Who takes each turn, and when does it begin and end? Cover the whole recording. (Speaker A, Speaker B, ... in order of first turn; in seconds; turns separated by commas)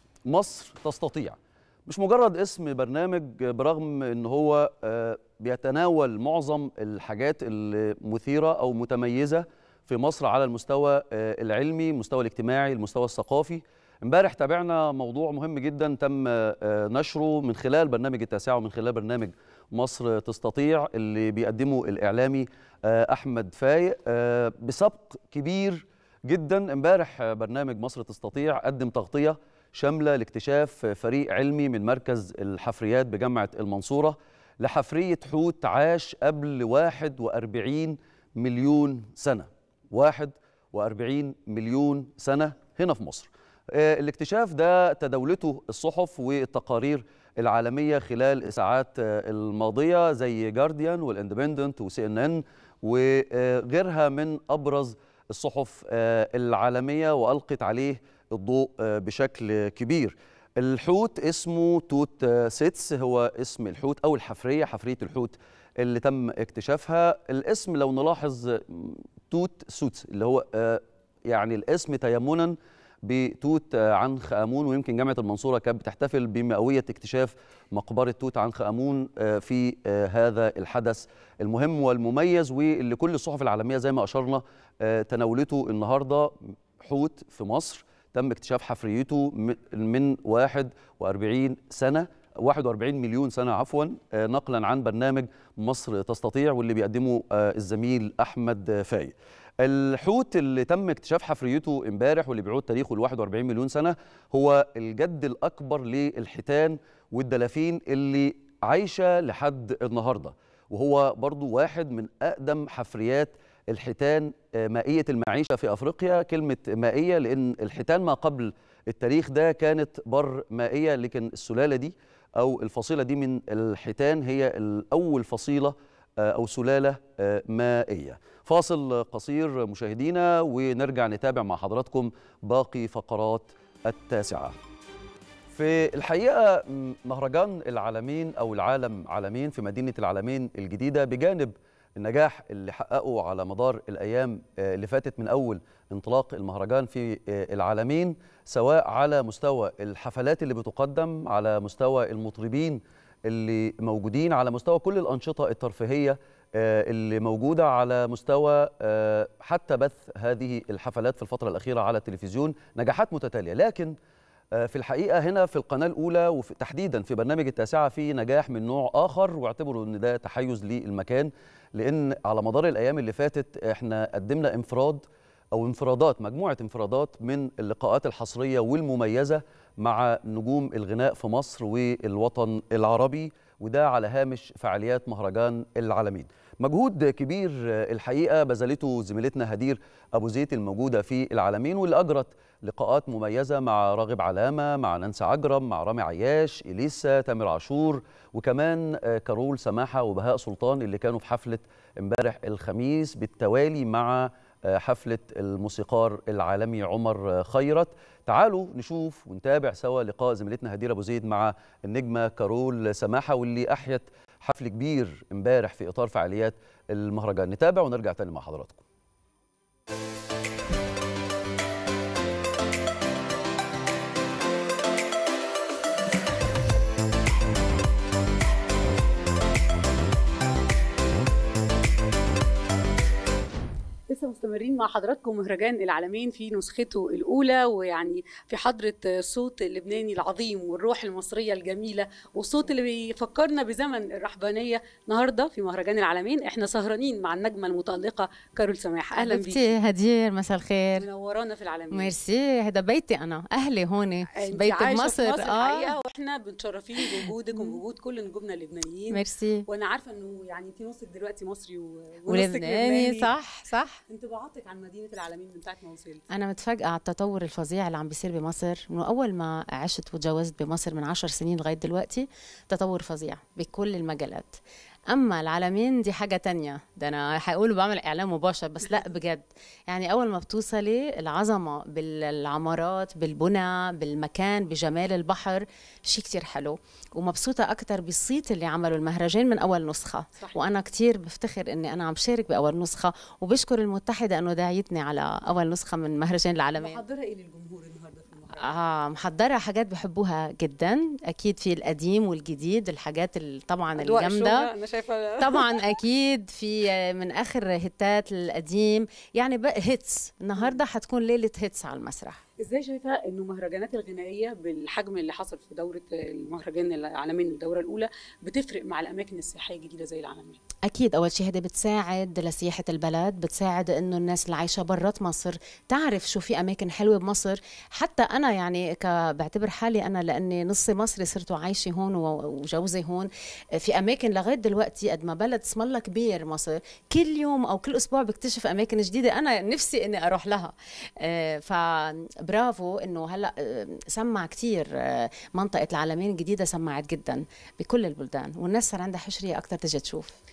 Speaker A: 0.3-134.6, Speaker A: 135.5-163.9, Speaker A: 164.6-218.8, Speaker B: 234.1-249.7, Speaker C: 249.2-251.1, Speaker B: 251.0-252.1, Speaker C: 251.9-255.9, Speaker B: 254.4-263.3, Speaker C: 257.0-257.8, Speaker C: 259.1-259.6, Speaker C: 262.3-264.0, Speaker B: 264.1-266.2, Speaker C: 266.3-274.6, Speaker C: 275.1-297.0, Speaker B: 296.8-298.6, Speaker C: 298.6-304.7, Speaker B: 304.0-305.7, Speaker C: 305.4-312.4, Speaker B: 310.6-310.8, Speaker B: 312.6-320.6, Speaker C: 320.9-350.3